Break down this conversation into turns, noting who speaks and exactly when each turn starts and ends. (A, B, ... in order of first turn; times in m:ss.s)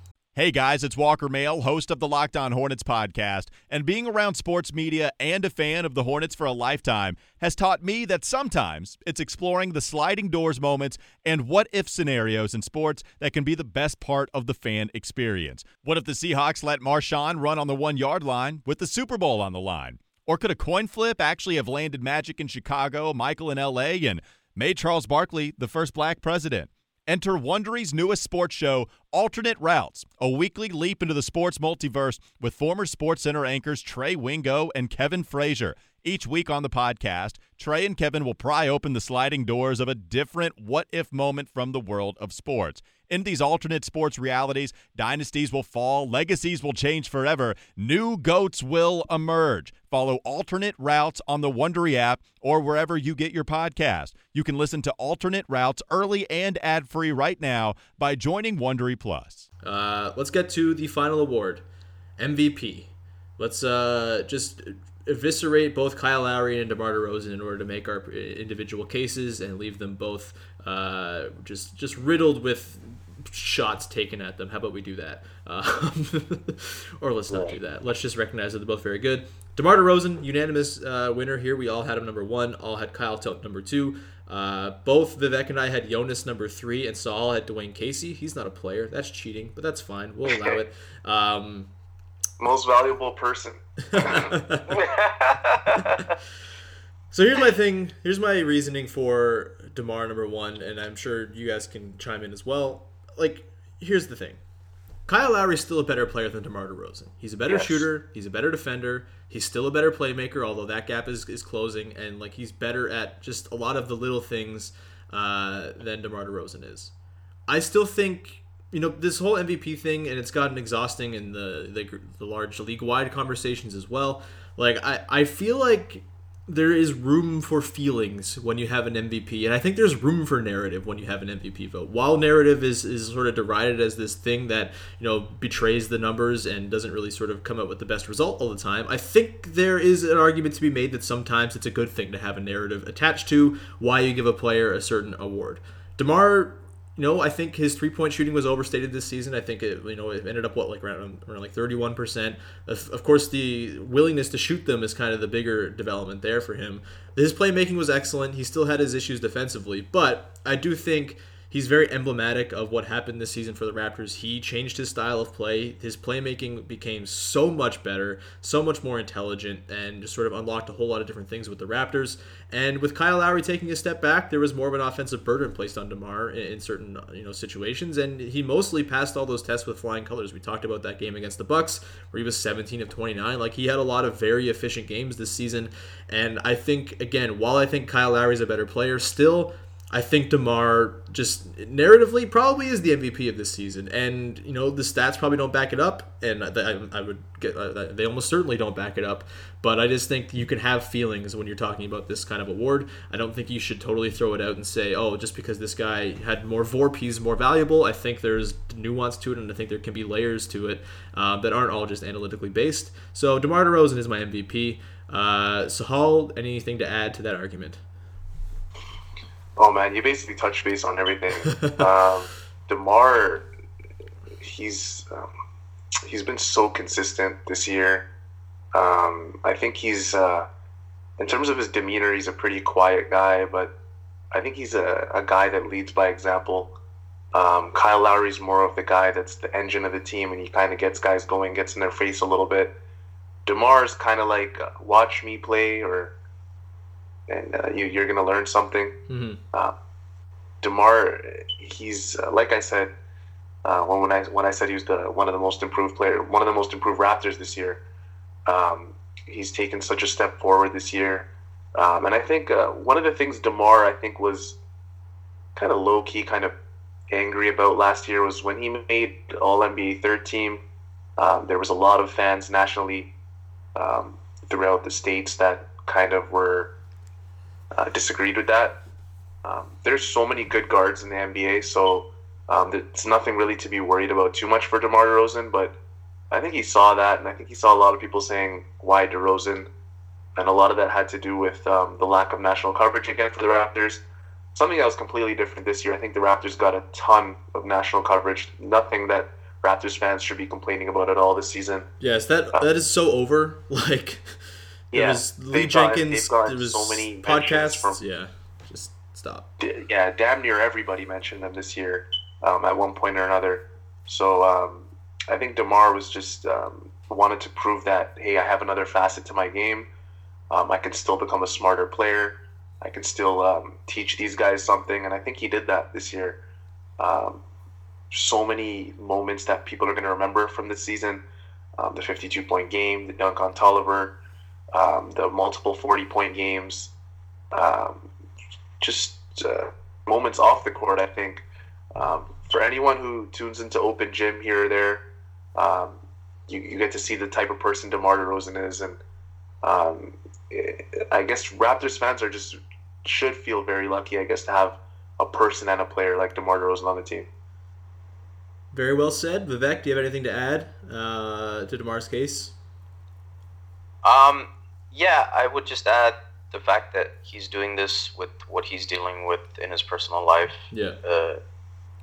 0:00.3-0:59.4 A
0:59.6-1:01.6 B
1:02.2-1:31.7 B
1:17.3-1:17.6 C
1:30.2-1:30.6 C
1:32.4-1:34.3 C
1:33.9-1:34.8 B
1:34.7-1:36.0 D
1:37.1-1:44.4 B
1:45.1-1:56.9 B
1:47.5-1:47.9 C
1:57.5-3:37.8 B
3:39.6-3:43.5 C
3:41.5-3:41.7 B
3:44.4-3:45.3 C
3:46.0-3:48.1 C
3:48.7-3:50.5 C
3:51.2-3:53.7 C
3:54.3-3:56.7 C
3:57.3-4:02.7 C
4:03.4-4:06.1 C
4:07.3-4:09.0 C
4:09.1-4:09.4 B
4:10.6-4:12.9 C
4:13.6-4:17.8 C
4:18.4-4:24.6 C
4:25.6-4:26.5 C
4:27.1-4:30.6 C
4:31.2-4:33.1 C
4:33.8-4:36.7 C
4:37.7-4:38.8 C
4:39.4-4:45.7 C
4:46.3-4:49.7 C
4:50.4-4:54.0 C
4:54.5-5:01.9 C
5:02.0-5:04.4 B
5:04.9-5:08.0 C
5:04.9-5:09.5 B
5:09.6-5:19.9 C
5:20.5-5:26.4 C
5:27.0-5:27.4 C
5:28.1-5:31.2 C
5:31.8-5:34.2 C
5:34.7-5:36.9 C
5:37.5-5:38.1 C
5:38.8-5:41.4 C
5:42.0-5:49.0 C
5:49.6-5:57.3 C
5:58.7-6:02.5 B
6:04.0-6:11.4 D
6:10.7-6:11.0 B